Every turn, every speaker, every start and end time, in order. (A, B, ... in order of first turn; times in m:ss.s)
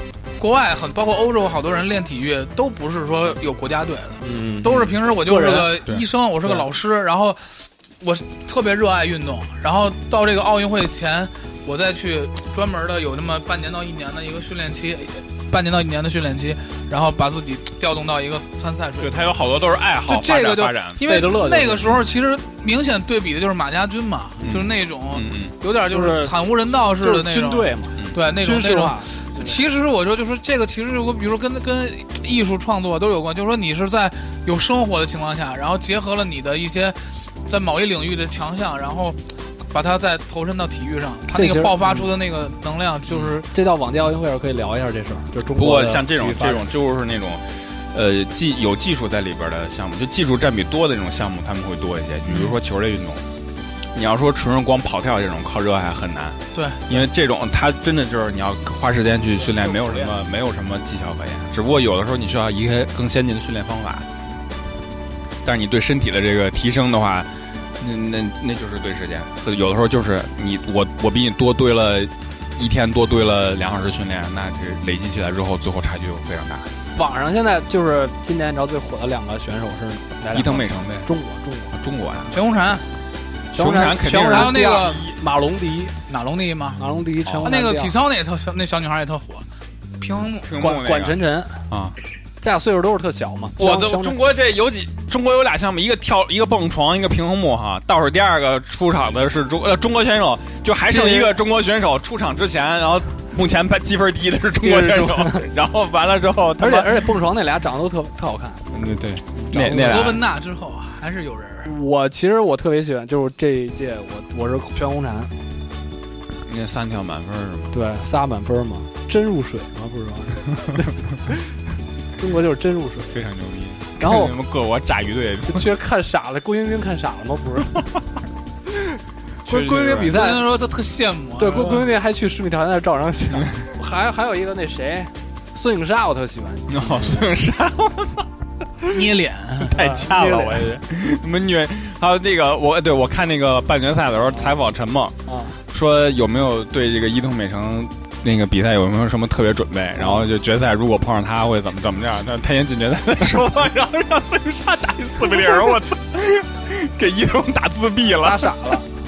0:00.4-0:19.3 A
0:04.2-0:05.8 B
0:19.0-0:21.0 C
0:20.0-0:43.5 A
0:21.0-0:22.0 B
0:24.4-0:25.6 C
0:25.9-0:26.4 B
0:27.0-0:29.6 B
0:41.3-0:42.1 B
0:43.4-0:46.6 B
0:45.5-0:53.2 C
0:54.0-1:04.1 C
0:56.5-0:57.0 A
1:05.4-1:16.7 C
1:17.0-1:21.7 B
1:20.3-1:21.1 C
1:21.7-1:22.3 C
1:22.3-1:22.8 A
1:23.5-1:25.1 C
1:23.5-1:26.0 B
1:24.3-1:25.1 A
1:26.1-1:26.8 A
1:26.8-1:28.0 B
1:27.4-1:29.4 A
1:30.0-1:30.5 A
1:30.4-1:32.0 C
1:30.6-1:31.6 B
1:32.4-1:34.2 B
1:33.6-1:47.1 C
1:40.9-1:41.4 B
1:44.6-1:45.5 B
1:46.6-1:48.6 B
1:48.7-1:50.2 C
1:49.4-1:50.0 B
1:49.6-1:51.7 A
1:51.6-1:55.3 B
1:56.5-1:57.7 C
1:57.7-2:00.5 B
2:02.2-2:03.1 B
2:03.1-2:05.7 C
2:04.0-2:04.3 B
2:05.5-2:07.8 B
2:09.4-2:10.2 C
2:09.5-2:10.5 B
2:10.1-2:11.9 A
2:11.4-2:17.3 B
2:16.7-2:18.3 C
2:18.9-2:19.7 A
2:19.7-2:20.8 B
2:19.7-2:25.2 C
2:25.3-2:25.6 B
2:25.7-2:38.6 C
2:30.0-2:30.3 B
2:38.2-2:38.8 B